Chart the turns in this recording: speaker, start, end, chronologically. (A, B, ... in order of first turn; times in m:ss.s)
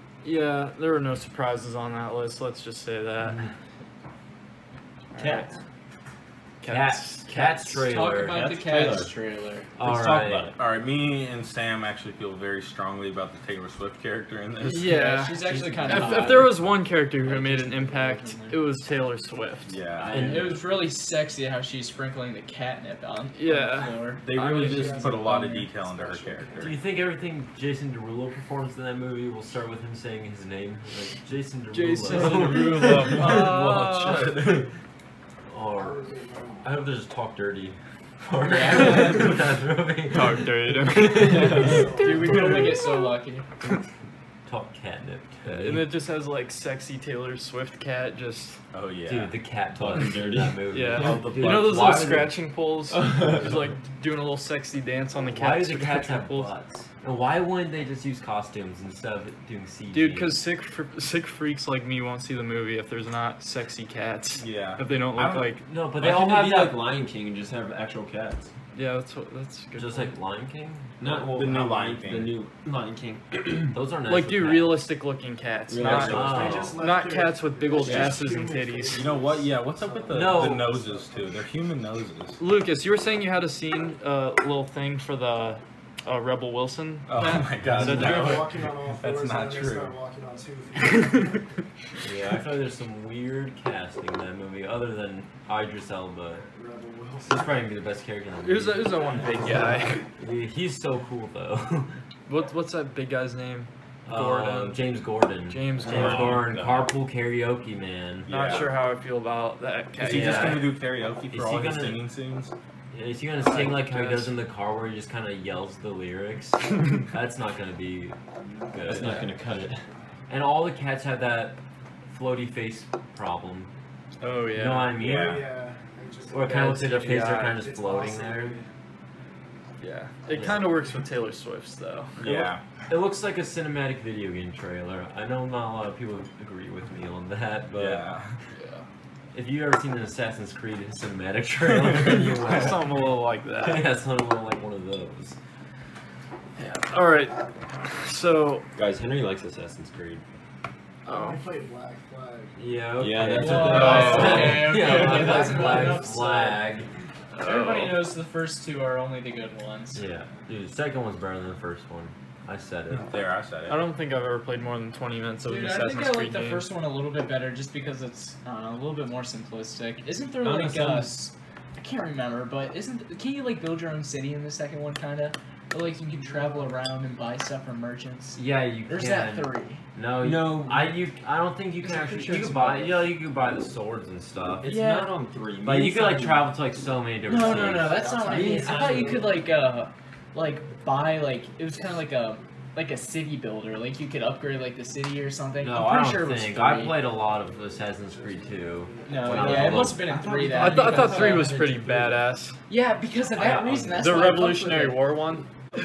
0:00.2-0:03.5 A
0:05.1-0:05.5 A
0:05.2-0:05.5 B
0:06.6-0:07.6 A
0:06.6-0:08.5 C
0:07.6-0:09.7 D
0:08.3-0:09.1 B
0:09.8-0:10.5 C
0:09.8-0:15.0 E
0:10.2-0:10.5 B
0:14.6-0:19.7 A
0:14.6-0:16.6 D
0:15.4-0:16.6 B
0:17.2-0:18.6 D
0:19.6-0:20.3 E
0:20.0-0:20.6 B
0:20.1-0:20.6 C
0:20.1-0:25.6 D
0:23.4-0:25.1 A
0:24.2-0:26.8 E
0:24.5-0:26.8 F
0:26.6-0:33.4 C
0:31.7-0:34.4 A
0:32.9-0:34.7 E
0:35.5-0:36.0 C
0:35.8-0:36.8 F
0:36.6-0:41.8 C
0:38.4-0:39.3 D
0:40.1-0:43.0 A
0:41.4-0:41.8 B
0:41.5-0:43.4 D
0:41.6-0:42.4 F
0:44.4-0:45.9 C
0:45.4-0:48.6 A
0:48.7-0:49.4 E
0:49.0-0:52.3 C
0:49.8-0:51.3 B
0:50.7-0:56.5 A
0:51.0-0:52.0 E
0:52.9-0:53.5 B
0:55.3-1:00.4 C
0:59.9-1:05.6 A
1:04.4-1:05.6 E
1:05.6-1:06.8 C
1:06.0-1:08.5 B
1:08.7-1:10.1 A
1:09.8-1:11.1 C
1:11.0-1:13.8 B
1:11.3-1:12.4 E
1:13.7-1:14.8 C
1:14.1-1:19.1 A
1:15.7-1:16.7 B
1:15.8-1:16.8 C
1:16.0-1:21.4 F
1:17.8-1:18.2 B
1:18.9-1:22.4 E
1:20.1-1:20.8 C
1:22.4-1:28.5 A
1:27.1-1:30.0 E
1:27.8-1:31.5 F
1:32.0-1:36.4 C
1:36.5-1:37.6 F
1:37.2-1:39.0 C
1:38.4-1:40.0 A
1:39.2-1:39.7 F
1:40.2-1:42.0 C
1:42.3-1:44.8 A
1:44.0-1:48.7 C
1:45.5-1:46.4 A
1:45.8-1:46.9 E
1:48.2-1:48.8 E
1:48.3-1:50.6 A
1:50.0-1:52.5 E
1:50.0-1:50.7 C
1:51.3-1:52.0 C
1:52.9-1:58.2 C
1:53.4-1:54.3 A
1:58.6-1:59.2 F
1:58.7-1:59.2 C
1:58.8-1:59.8 B
2:00.3-2:03.7 C
2:04.2-2:05.0 A
2:04.5-2:05.4 C
2:05.0-2:08.8 F
2:05.0-2:05.4 E
2:06.3-2:08.6 C
2:06.4-2:07.6 A
2:09.8-2:12.2 A
2:10.3-2:10.6 C
2:12.2-2:12.6 E
2:12.2-2:18.0 C
2:17.7-2:18.4 E
2:19.3-2:23.0 C
2:22.4-2:23.9 A
2:23.6-2:25.4 C
2:26.6-2:28.7 A
2:28.7-2:30.2 B
2:31.0-2:32.6 F
2:31.0-2:31.4 A
2:32.6-2:36.9 C
2:33.0-2:35.2 B
2:33.3-2:36.6 D
2:33.6-2:34.7 A
2:35.3-2:35.9 F
2:37.3-2:38.0 A
2:37.4-2:40.0 D
2:39.9-2:43.1 C
2:42.9-2:43.8 E
2:43.7-2:46.7 A
2:45.4-2:59.8 D
2:50.4-2:51.2 B
2:56.2-2:56.7 F
2:58.4-3:04.8 C
3:00.2-3:01.0 B
3:01.8-3:03.0 D
3:04.6-3:06.5 B
3:04.6-3:05.2 D
3:05.6-3:08.2 C
3:07.2-3:17.0 D
3:07.3-3:09.4 F
3:08.2-3:09.4 B
3:15.6-3:20.0 C
3:17.9-3:19.4 F
3:19.0-3:21.5 D
3:19.3-3:22.2 B
3:20.5-3:22.6 A
3:22.7-3:25.1 D
3:23.3-3:24.2 C
3:24.0-3:25.4 A